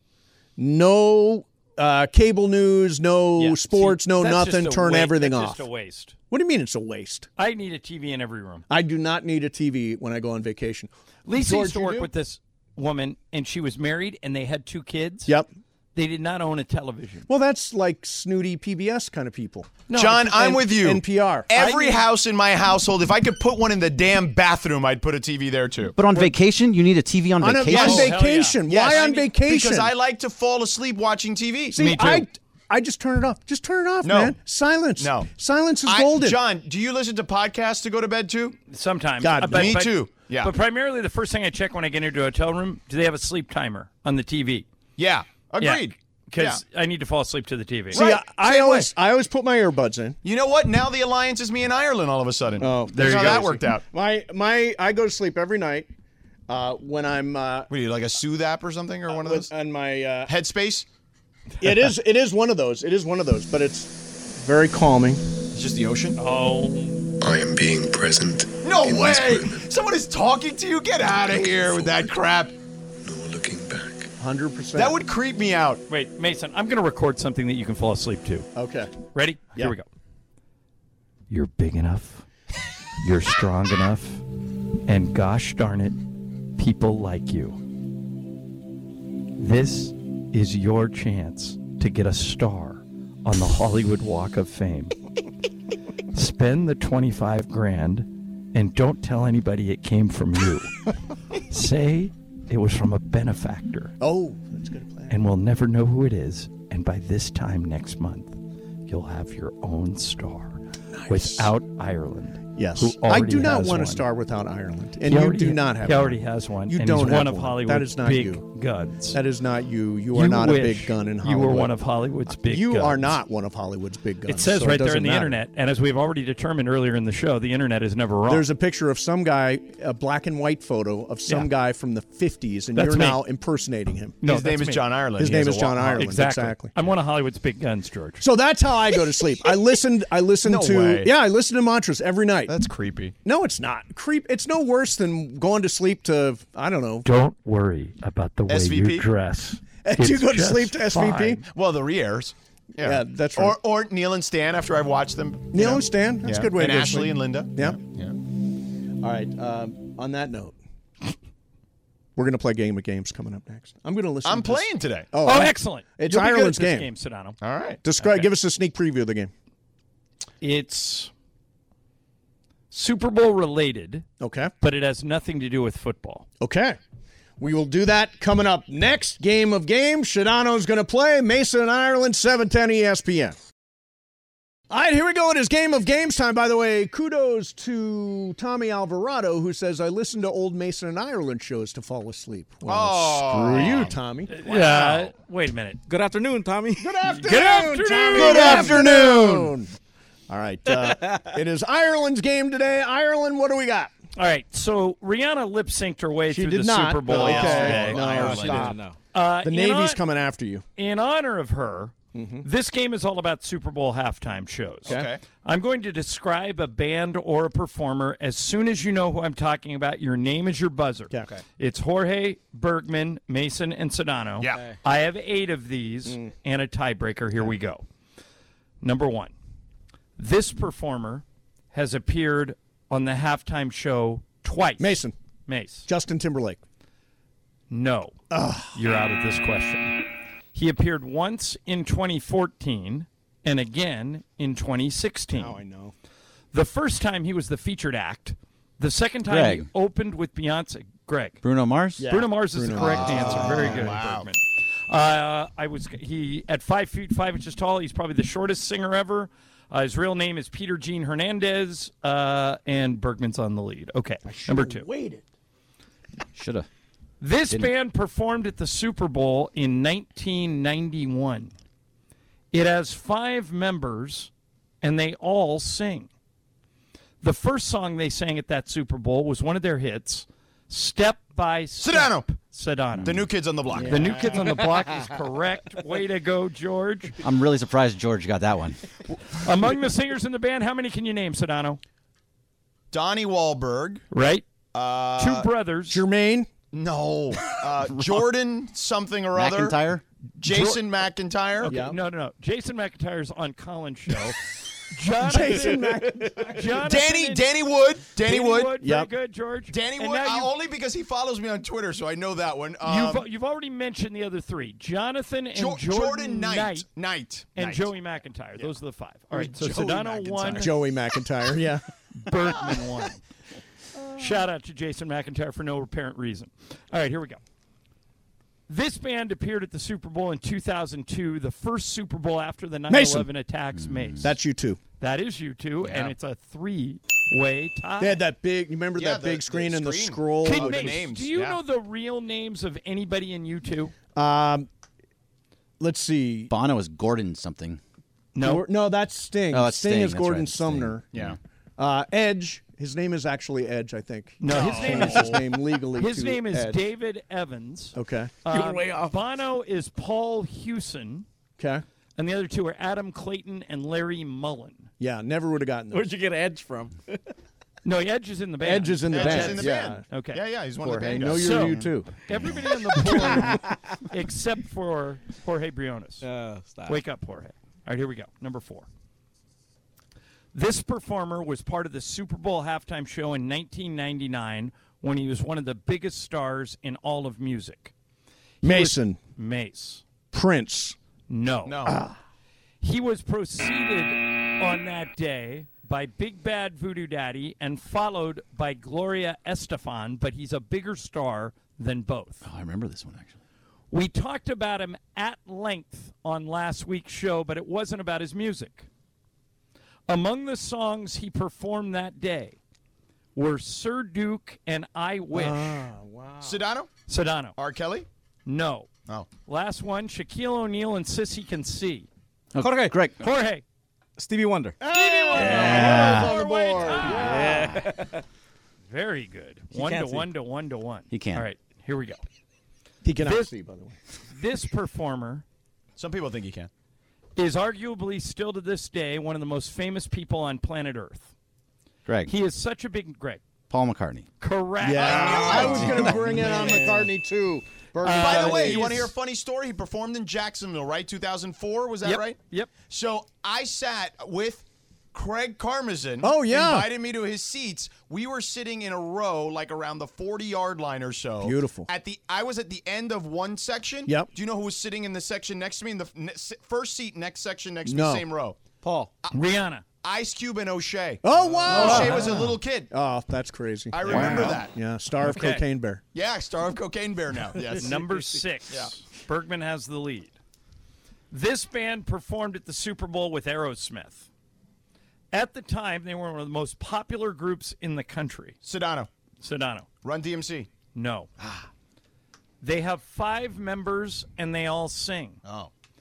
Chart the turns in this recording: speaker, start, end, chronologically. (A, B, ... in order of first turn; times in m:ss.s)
0:00.6-0:05.6 A
0:03.4-0:06.2 B
0:06.3-0:07.3 A
0:07.4-0:08.6 B
0:08.7-0:12.1 A
0:11.2-0:15.3 B
0:15.9-0:17.2 B
0:17.3-0:22.0 A
0:19.9-0:20.2 B
0:19.9-0:26.0 C
0:26.0-0:28.1 D
0:27.4-0:29.9 A
0:27.7-0:28.1 C
0:27.7-0:29.2 B
0:28.6-0:31.8 C
0:31.7-0:36.4 A
0:31.8-0:32.3 B
0:34.0-0:34.4 C
0:35.0-0:35.3 C
0:35.8-0:38.6 C
0:38.7-0:44.6 B
0:39.2-0:39.8 A
0:39.5-0:40.5 C
0:45.0-0:46.6 C
0:45.6-0:48.0 B
0:47.9-0:48.9 C
0:47.9-0:50.2 A
0:50.2-0:53.8 C
0:52.6-0:55.9 A
0:52.9-0:53.6 B
0:56.5-0:57.7 A
0:57.7-0:59.5 C
0:59.1-1:00.3 A
1:00.3-1:00.8 C
1:01.6-1:05.2 A
1:05.5-1:06.2 C
1:06.2-1:07.1 B
1:07.2-1:09.7 E
1:08.6-1:12.5 C
1:11.1-1:12.1 E
1:13.0-1:14.1 E
1:14.2-1:15.0 A
1:14.8-1:15.8 C
1:15.9-1:18.5 B
1:18.6-1:18.9 A
1:19.1-1:19.8 B
1:21.3-1:22.2 B
1:23.0-1:24.2 B
1:24.9-1:26.0 B
1:26.6-1:27.6 B
1:29.4-1:34.9 B
1:36.1-1:40.9 B
1:41.5-1:43.9 B
1:44.0-1:45.1 A
1:45.1-1:54.0 B
1:50.9-1:51.5 A
1:52.6-1:58.4 A
1:55.1-1:59.2 B
1:59.1-2:01.7 A
2:00.1-2:03.2 B
2:02.3-2:05.4 A
2:04.3-2:08.4 B
2:08.3-2:14.2 A
2:12.8-2:13.2 B
2:14.2-2:14.9 B
2:14.2-2:16.1 C
2:15.2-2:16.7 A
2:16.0-2:18.2 B
2:18.2-2:22.5 A
2:20.4-2:21.1 C
2:22.5-2:23.1 C
2:23.2-2:27.0 A
2:27.0-2:31.4 B
2:28.5-2:29.1 C
2:29.8-2:31.4 A
2:31.4-2:38.2 C
2:32.8-2:33.6 A
2:35.5-2:37.8 A
2:39.0-2:40.5 A
2:42.2-2:46.9 A
2:44.2-2:45.1 C
2:45.2-2:47.4 B
2:47.4-2:47.8 C
2:47.8-2:49.3 A
2:48.0-2:48.3 B
2:50.4-2:51.1 B
2:52.7-2:54.1 B
2:54.2-2:54.5 A
2:54.6-2:56.2 B
2:56.4-2:56.8 A
2:57.4-3:03.4 A
3:04.7-3:15.1 A
3:12.6-3:13.9 C
3:14.3-3:15.8 B
3:15.9-3:16.9 F
3:16.8-3:19.7 A
3:17.1-3:18.8 B
3:18.2-3:18.9 C
3:18.3-3:18.7 F
3:20.3-3:23.9 A
3:24.2-3:30.0 B
3:26.3-3:28.8 A
3:27.1-3:28.7 C
3:27.5-3:29.0 F
3:29.4-3:30.6 A
3:30.8-3:47.8 B
3:32.1-3:32.4 A
3:34.9-3:35.2 C
3:48.8-3:49.3 B
3:50.2-3:55.9 B
3:54.8-3:55.1 A
3:55.9-3:56.6 A
3:57.7-3:58.2 B
3:58.3-3:58.8 A
3:58.7-4:00.0 B
4:00.5-4:05.6 B
4:05.3-4:05.9 A
4:06.5-4:11.4 B
4:09.2-4:09.7 D
4:11.4-4:12.1 D
4:12.0-4:14.0 A
4:12.0-4:24.8 B
4:12.8-4:14.3 C
4:24.2-4:25.2 A
4:26.3-4:26.7 D
4:27.2-4:31.5 B
4:32.5-4:34.3 B
4:34.8-4:36.1 B
4:37.2-4:43.2 B
4:41.8-4:42.3 C
4:43.0-4:44.2 D
4:43.0-4:44.4 C
4:43.8-4:47.2 B
4:47.2-4:48.8 D
4:49.3-4:51.8 B
4:52.9-4:54.0 C
4:54.1-4:54.4 B
4:54.7-4:55.5 C
4:55.2-4:56.0 B
4:55.9-4:56.5 A
4:56.7-4:59.8 C
4:59.3-5:00.0 D
5:00.4-5:01.7 C
5:00.4-5:00.8 B
5:01.6-5:07.5 B
5:01.7-5:02.0 A
5:05.2-5:06.8 A
5:06.8-5:08.7 C
5:08.2-5:10.5 B
5:08.8-5:09.1 A
5:09.7-5:13.2 C
5:12.8-5:16.9 B
5:15.5-5:17.9 C
5:17.6-5:20.7 B
5:19.3-5:20.7 C
5:20.5-5:21.8 A
5:22.2-5:23.2 B
5:24.1-5:27.4 B
5:28.7-5:34.3 B
5:32.9-5:33.3 A
5:33.8-5:34.3 D
5:34.2-5:34.8 A
5:35.0-5:38.2 B
5:35.8-5:36.1 C
5:38.0-5:41.0 A
5:39.0-5:41.6 C
5:40.4-5:43.9 B
5:44.2-5:44.7 A
5:45.8-5:46.5 A
5:46.5-5:47.8 D
5:48.3-5:48.6 B
5:48.4-5:51.0 A
5:49.5-5:51.4 D
5:51.8-5:56.8 A
5:54.4-6:01.2 B
5:54.5-5:55.4 C
5:57.9-5:58.3 A
5:58.5-5:59.1 F
6:01.6-6:01.8 A
6:02.2-6:04.9 B
6:05.0-6:06.1 A
6:05.9-6:07.3 F
6:07.8-6:10.4 B
6:08.6-6:10.0 A
6:09.1-6:11.8 C
6:10.8-6:12.1 A
6:11.3-6:16.2 B
6:13.1-6:13.7 F
6:13.1-6:13.4 A
6:16.2-6:17.0 F
6:16.8-6:18.8 B
6:20.5-6:27.9 B
6:28.6-6:29.2 A
6:28.6-6:30.0 B
6:30.3-6:31.0 A
6:31.3-6:31.8 B
6:31.6-6:32.0 C
6:31.8-6:32.2 A
6:32.8-6:42.4 B
6:42.4-6:43.3 D
6:43.9-6:48.8 B
6:50.1-6:52.6 B
6:53.3-6:55.9 B
6:55.3-6:56.6 A
6:56.4-6:56.9 C
6:57.1-6:57.6 B
6:57.6-6:58.1 C
6:58.4-6:58.9 B
6:59.4-7:02.1 B
7:02.5-7:03.2 D
7:02.6-7:03.0 F
7:03.2-7:03.6 B
7:04.2-7:04.8 F
7:04.8-7:07.7 A
7:04.9-7:07.5 B
7:05.4-7:06.2 F
7:05.4-7:06.3 D
7:07.0-7:08.2 F
7:07.4-7:07.8 D
7:08.9-7:12.2 B
7:09.7-7:10.3 F
7:11.1-7:11.4 D
7:13.0-7:14.0 A
7:13.2-7:13.5 B
7:14.3-7:15.4 B
7:16.0-7:16.7 C
7:17.4-7:21.3 B
7:22.0-7:22.3 D
7:22.2-7:23.4 B
7:23.7-7:24.2 D
7:24.4-7:26.8 B
7:24.8-7:29.1 A
7:24.9-7:26.8 C
7:25.8-7:26.1 D
7:26.3-7:27.1 F
7:28.0-7:29.1 B
7:28.1-7:48.6 C
7:32.0-7:32.7 B
7:36.2-7:36.9 A
7:41.4-7:41.9 A
7:47.8-7:48.2 A
7:49.3-7:49.8 B
7:50.0-7:52.9 C
7:51.2-7:56.0 A
7:51.4-7:52.2 F
7:51.7-7:52.5 B
7:53.9-7:54.7 C
7:55.2-7:55.6 B
7:56.1-7:58.0 C
7:57.8-8:00.3 B
8:01.3-8:04.3 B
8:05.3-8:08.6 B
8:08.6-8:09.1 C
8:09.4-8:09.8 B
8:10.0-8:10.7 C
8:10.9-8:11.3 B
8:12.6-8:15.4 B
8:15.4-8:15.7 C